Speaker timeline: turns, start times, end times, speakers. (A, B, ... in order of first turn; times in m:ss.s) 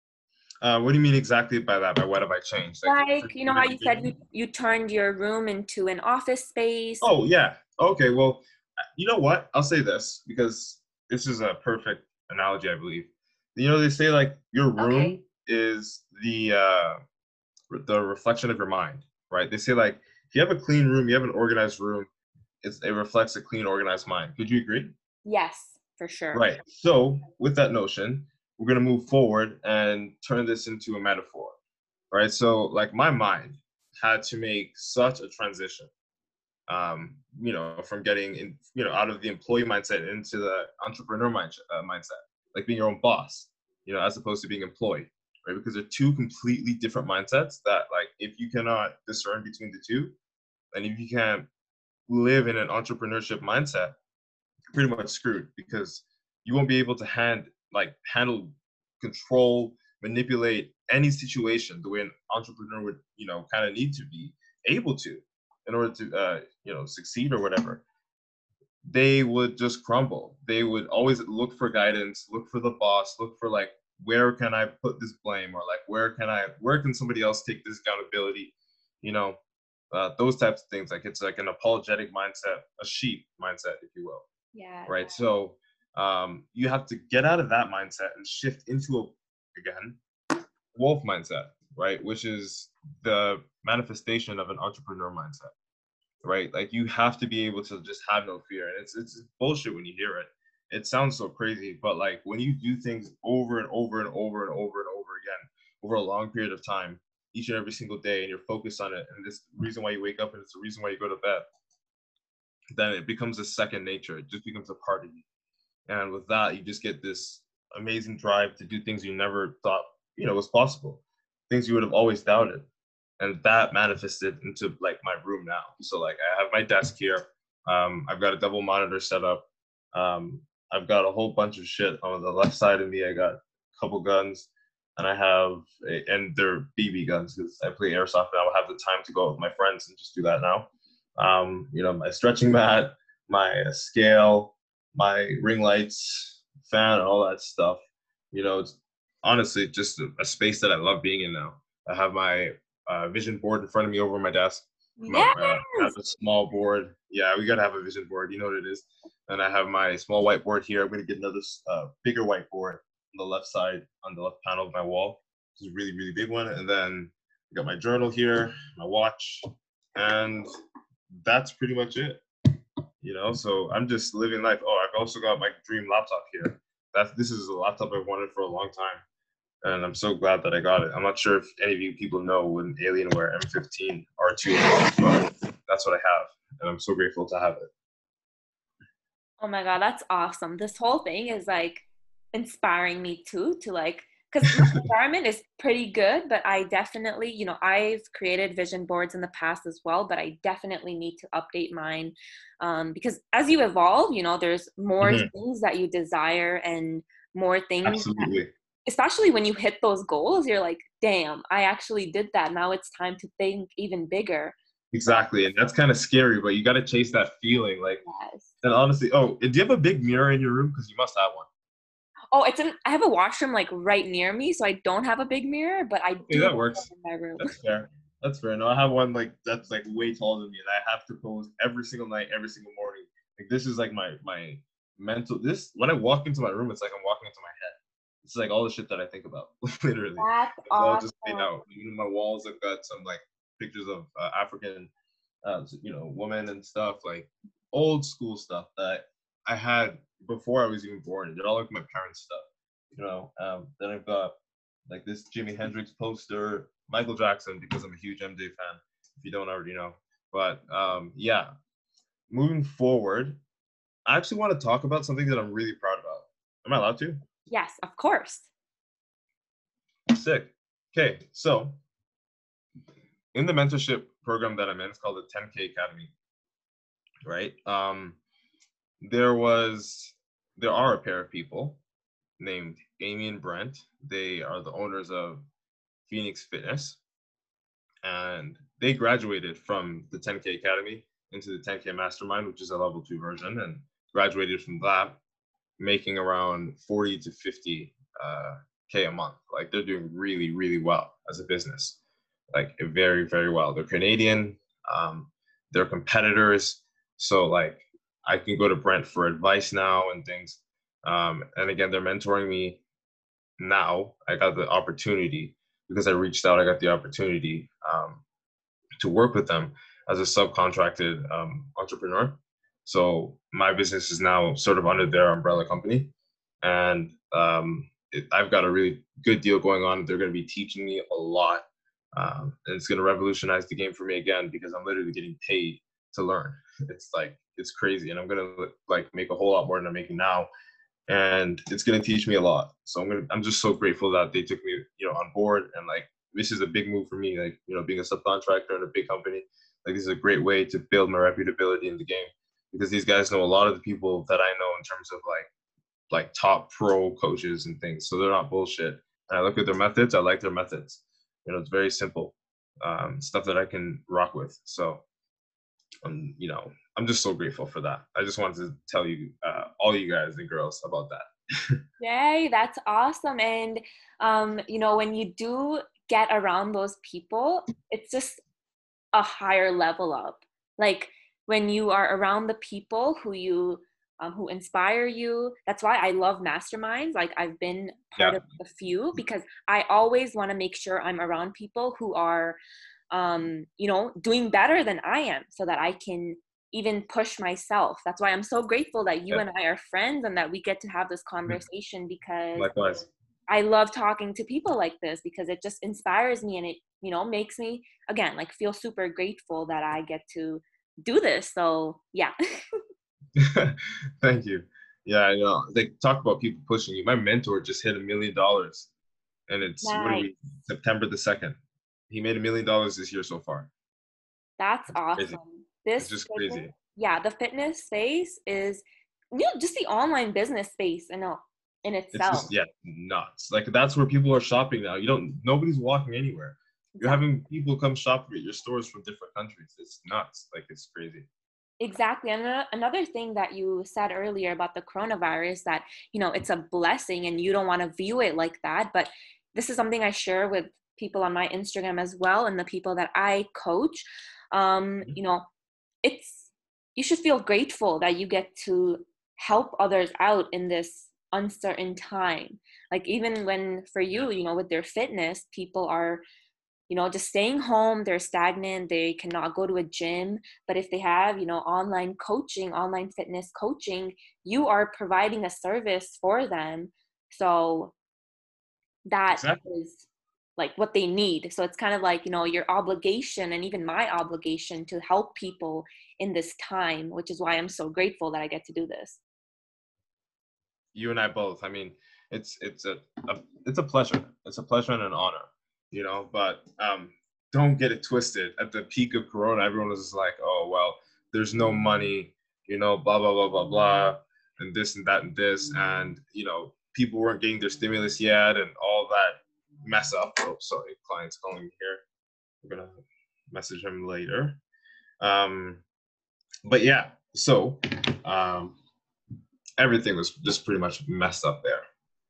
0:00.6-0:04.2 A
0:02.8-0:07.1 B
0:07.0-0:08.4 A
0:09.0-0:17.0 A
0:14.8-0:15.2 B
0:17.7-0:22.1 A
0:22.6-0:24.9 A
0:25.2-0:26.4 B
0:26.3-0:31.6 A
0:32.1-0:35.9 A
0:36.7-0:50.1 A
0:50.7-0:51.5 A
0:52.1-0:54.0 A
0:54.7-1:07.8 A
1:08.9-1:19.4 A
1:19.9-1:24.3 A
1:24.5-1:25.2 B
1:24.9-1:30.0 A
1:30.8-1:35.5 A
1:36.2-1:51.5 A
1:52.8-1:55.2 A
1:55.9-2:02.6 A
2:03.2-2:27.8 A
2:28.3-2:50.5 A
2:35.0-2:35.9 B
2:51.2-2:52.2 A
2:53.0-2:59.0 A
2:59.6-3:07.7 A
3:09.4-3:28.3 B
3:14.5-3:14.8 A
3:25.0-3:25.3 A
3:27.8-3:28.5 A
3:28.9-3:34.6 B
3:34.9-3:38.0 A
3:38.0-3:38.5 B
3:38.6-3:41.5 A
3:42.3-3:47.5 B
3:46.3-3:46.9 A
3:47.4-4:04.9 A
4:00.2-4:01.6 B
4:05.4-4:14.4 A
4:14.9-4:21.5 A
4:22.3-4:23.4 A
4:24.1-4:27.2 A
4:27.5-4:28.5 B
4:30.1-4:31.8 A
4:33.3-4:36.1 A
4:37.2-4:38.2 A
4:39.0-4:41.8 A
4:42.4-4:45.4 A
4:46.1-4:47.0 A
4:48.0-4:55.2 A
4:55.8-5:02.0 A
5:02.5-5:12.8 A
5:13.6-5:18.2 A
5:19.0-5:26.1 A
5:26.6-5:31.6 A
5:32.2-5:40.5 A
5:41.1-5:55.5 A
5:56.1-6:05.0 A
6:06.0-6:11.8 A
6:12.0-6:18.4 B
6:19.1-6:32.6 B
6:28.2-6:28.4 A
6:33.1-6:42.7 B
6:42.6-6:43.1 A
6:43.5-6:52.8 B
6:53.4-6:58.9 A
6:59.5-7:01.6 A
6:59.8-7:00.3 B
7:02.1-7:03.7 A
7:04.6-7:12.5 B
7:06.0-7:06.7 A
7:12.1-7:21.3 A
7:17.0-7:17.2 B
7:21.8-7:35.5 B
7:36.0-7:46.2 B
7:46.9-7:58.0 B
7:59.1-8:00.0 B
7:59.3-7:59.6 A
8:00.6-8:09.2 B
8:11.0-8:32.0 A
8:32.6-8:33.0 A
8:33.5-8:34.6 A
8:35.2-8:35.8 A
8:36.6-8:38.8 A
8:39.8-8:41.8 A